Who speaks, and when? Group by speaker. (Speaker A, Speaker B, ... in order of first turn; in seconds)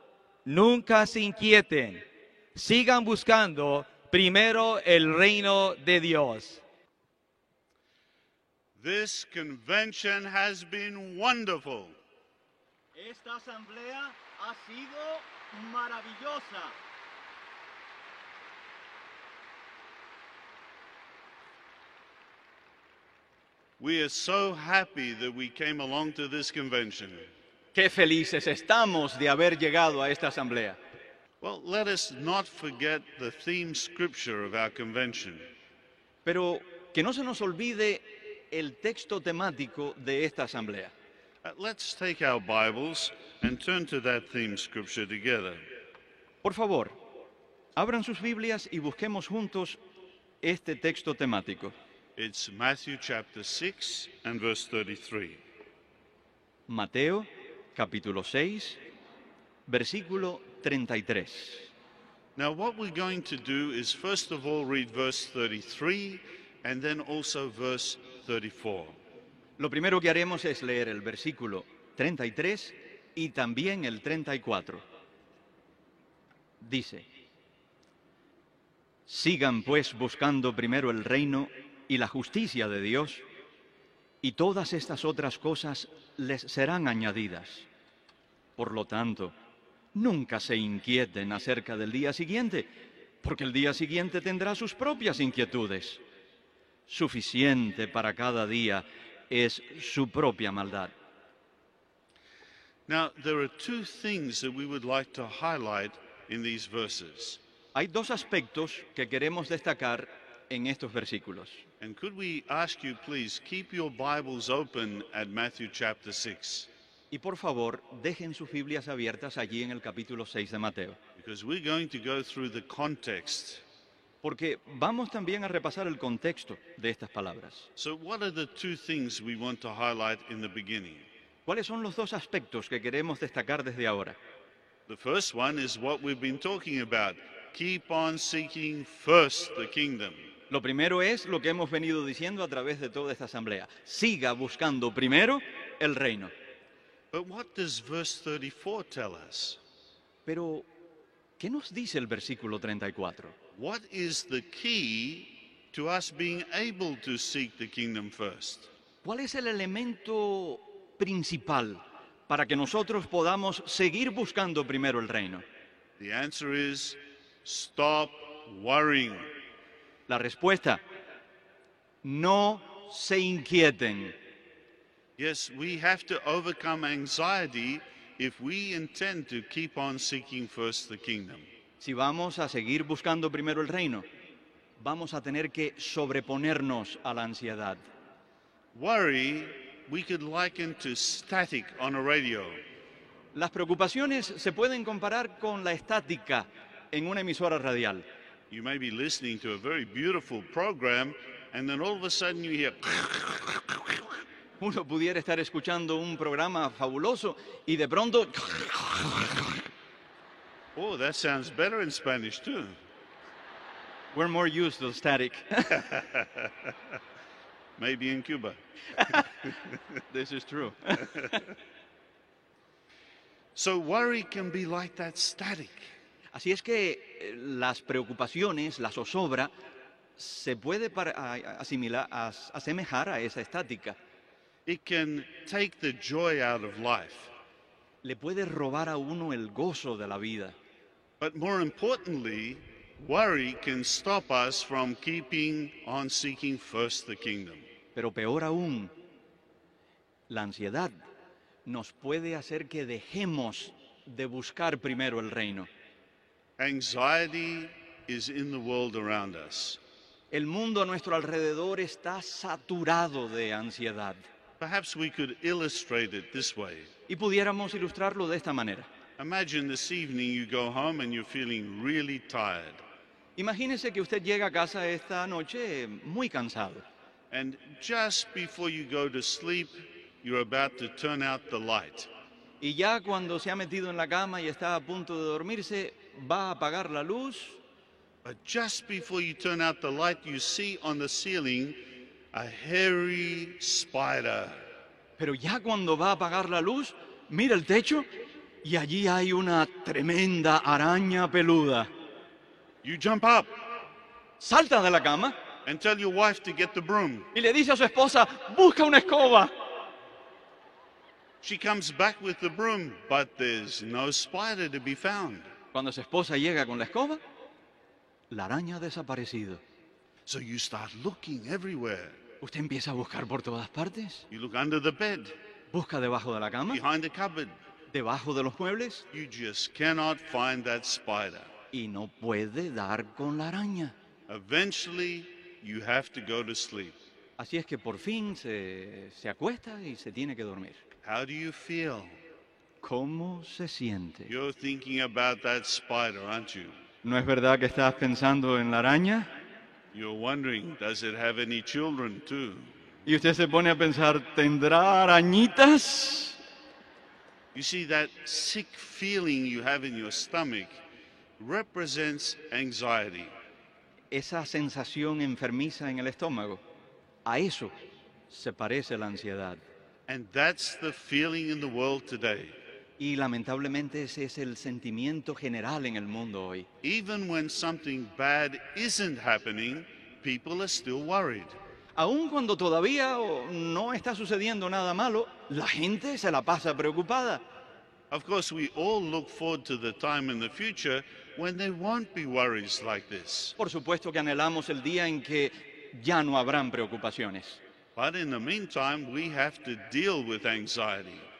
Speaker A: 0.5-2.0, 2.5-6.6
Speaker B: 8.8-12.0, 23.8-27.3, 31.4-35.5, 41.4-45.7, 52.2-55.4, 62.4-69.0, 102.9-107.4, 111.8-116.7, 121.2-123.6, 127.8-131.1, 134.9-140.3, 147.1-149.6, 153.5-158.7, 166.0-169.3, 175.2-181.5, 188.7-192.6, 198.5-203.9, 210.8-212.8, 215.9-216.7, 217.8-219.6, 223.6-225.9, 234.7-237.3, 241.2-247.7, 256.6-259.8, 264.6-266.9, 269.2-272.8, 277.3-282.1, 288.2-291.8, 292.3-294.7, 302.8-303.6, 305.6-307.3, 311.4-315.5, 320.3-322.2, 324.3-325.4, 326.7-327.6, 329.1-331.5, 334.3-337.0, 341.0-342.2, 344.3-346.8, 349.9-352.8, 357.5-360.8, 361.4-363.3, 370.1-372.6, 376.8-381.6, 388.1-393.6, 398.0-401.3
Speaker C: 12.9-16.8, 27.7-30.8, 36.2-40.9, 46.4-47.0, 47.8-49.8, 50.4-51.7, 56.7-58.8, 59.7-61.7, 69.6-74.8, 76.6-77.1, 79.1-83.2, 84.2-87.7, 88.6-89.4, 90.0-92.7, 93.2-96.0, 96.9-100.9, 107.8-111.6, 117.1-121.0, 124.2-127.7, 131.5-134.2, 140.5-146.3, 150.3-150.7, 151.4-153.4, 159.0-165.4, 170.1-170.8, 172.0-174.2, 181.8-184.1, 184.8-187.8, 193.3-198.0, 204.6-209.4, 214.1-215.9, 219.0-219.3, 220.1-221.4, 226.3-229.5, 230.2-234.0, 238.0-240.6, 247.9-248.9, 250.3-250.9, 251.7-255.7, 260.3-264.3, 267.1-268.9, 273.4-276.9, 282.6-287.6, 295.2-298.1, 298.6-301.9, 304.4-305.4, 307.3-309.5, 315.7-317.2, 318.3-319.6, 322.4-324.3, 325.7-326.8, 327.9-329.1, 331.7-333.9, 337.4-340.8, 342.8-344.3, 347.0-349.3, 353.1-356.4, 364.1-366.6, 367.2-367.7, 368.3-369.6, 373.0-376.7, 382.0-387.4, 393.6-397.6